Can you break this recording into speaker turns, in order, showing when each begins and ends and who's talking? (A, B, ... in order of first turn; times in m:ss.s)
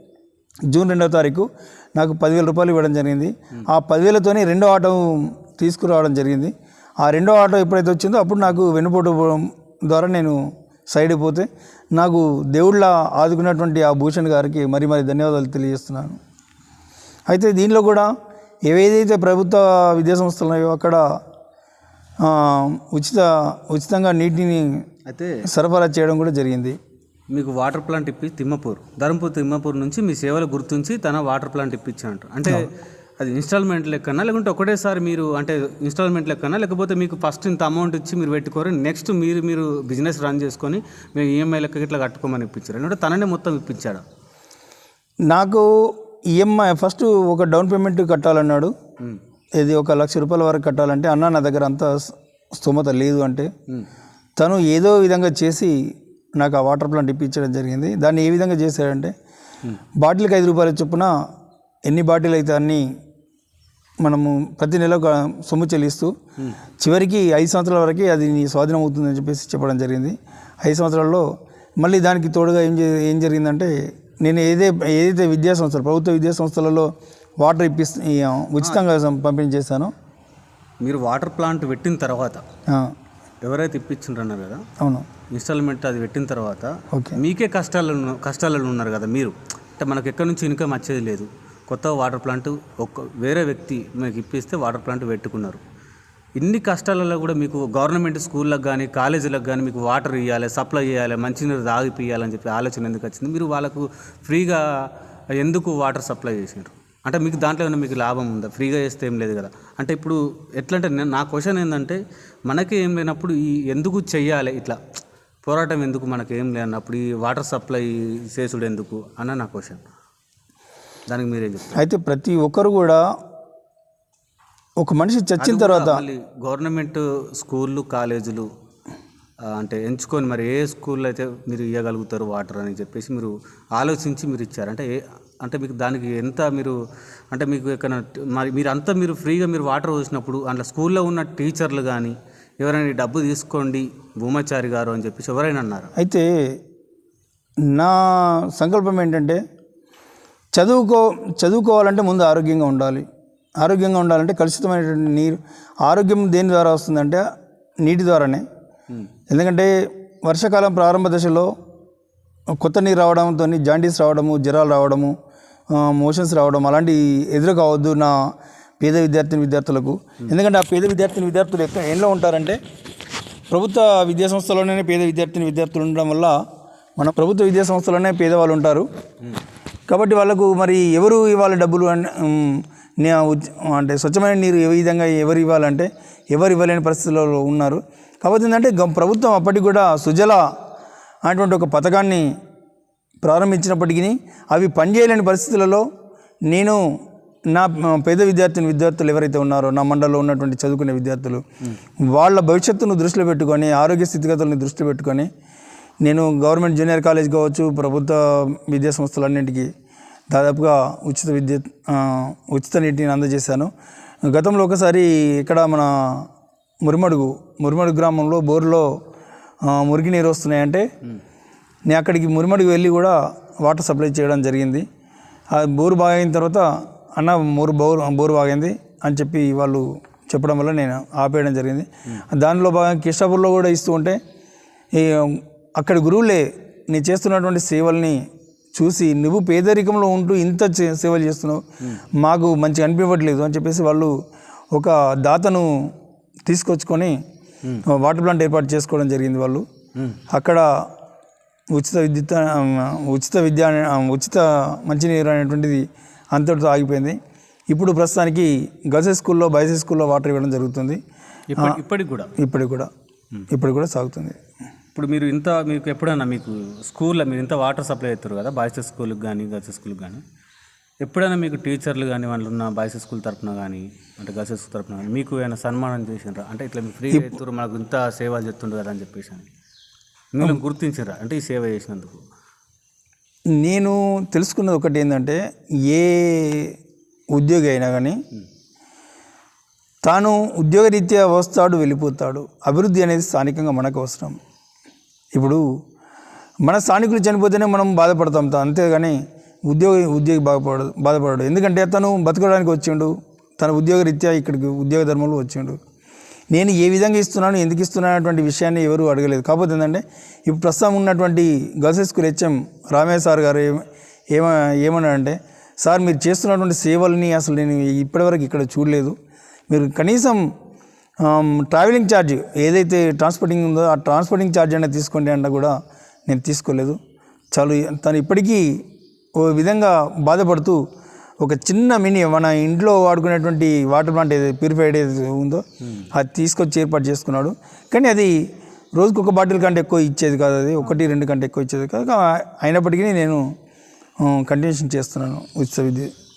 0:00.7-0:10.4 A
0:10.9-0:16.2 A
0:17.3-0:18.1 A
0:18.7-0:21.0 A
0:22.2-0:24.8 A
0:25.1-0:25.4 B
0:25.5-0:26.8 A
0:27.3-0:44.0 B
0:45.3-0:48.7 A
0:49.6-0:53.5 A
0:54.4-0:55.8 A
0:56.4-0:59.1 A
1:00.0-1:01.1 A
1:01.9-1:02.8 A
1:04.0-1:06.1 A
1:06.8-1:11.2 A
1:11.8-1:16.9 A
1:17.4-1:19.9 A
1:20.8-1:22.4 B
1:23.4-1:24.6 B
1:24.8-1:25.1 A
1:25.3-1:35.6 B
1:26.9-1:27.2 A
1:36.4-1:54.8 B
1:55.4-1:59.8 B
2:01.1-2:01.8 B
2:01.8-2:03.0 A
2:04.8-2:06.0 A
2:05.4-2:08.5 B
2:09.5-2:14.9 B
2:15.4-2:16.8 B
2:17.3-2:25.9 B
2:26.0-2:26.6 A
2:27.7-2:29.4 A
2:30.5-2:33.1 A
2:33.6-2:37.2 A
2:37.8-2:38.4 A
2:39.3-2:41.5 A
2:42.6-2:45.2 A
2:45.7-2:52.6 A
2:53.5-2:56.4 A
2:57.0-2:58.9 A
2:59.9-3:10.4 A
3:11.2-3:12.3 A
3:13.2-3:15.9 A
3:16.5-3:16.8 A
3:17.5-3:21.4 A
3:22.0-3:25.3 A
3:26.0-3:29.7 A
3:30.3-3:33.7 A
3:34.2-3:36.3 A
3:36.8-3:38.9 A
3:39.6-3:40.8 A
3:41.9-3:44.9 A
3:45.5-3:54.2 A
3:54.9-3:58.2 A
3:58.7-4:04.1 A
4:04.7-4:05.9 A
4:06.4-4:07.2 A
4:07.9-4:09.7 A
4:10.3-4:10.9 A
4:11.7-4:17.2 A
4:17.7-4:21.0 A
4:21.5-4:22.3 B
4:22.4-4:22.9 A
4:23.5-4:24.4 A
4:25.0-4:30.2 B
4:31.0-4:39.5 B
4:37.1-4:37.4 A
4:40.3-4:42.2 B
4:43.6-4:46.8 A
4:47.4-4:48.2 A
4:50.0-4:54.4 A
4:55.3-4:55.6 A
4:56.6-5:05.8 A
5:06.5-5:19.2 A
5:19.7-5:20.4 A
5:21.2-5:27.0 A
5:27.5-5:28.8 A
5:29.4-5:30.8 A
5:31.4-5:38.4 A
5:39.0-5:43.5 A
5:44.2-5:46.1 A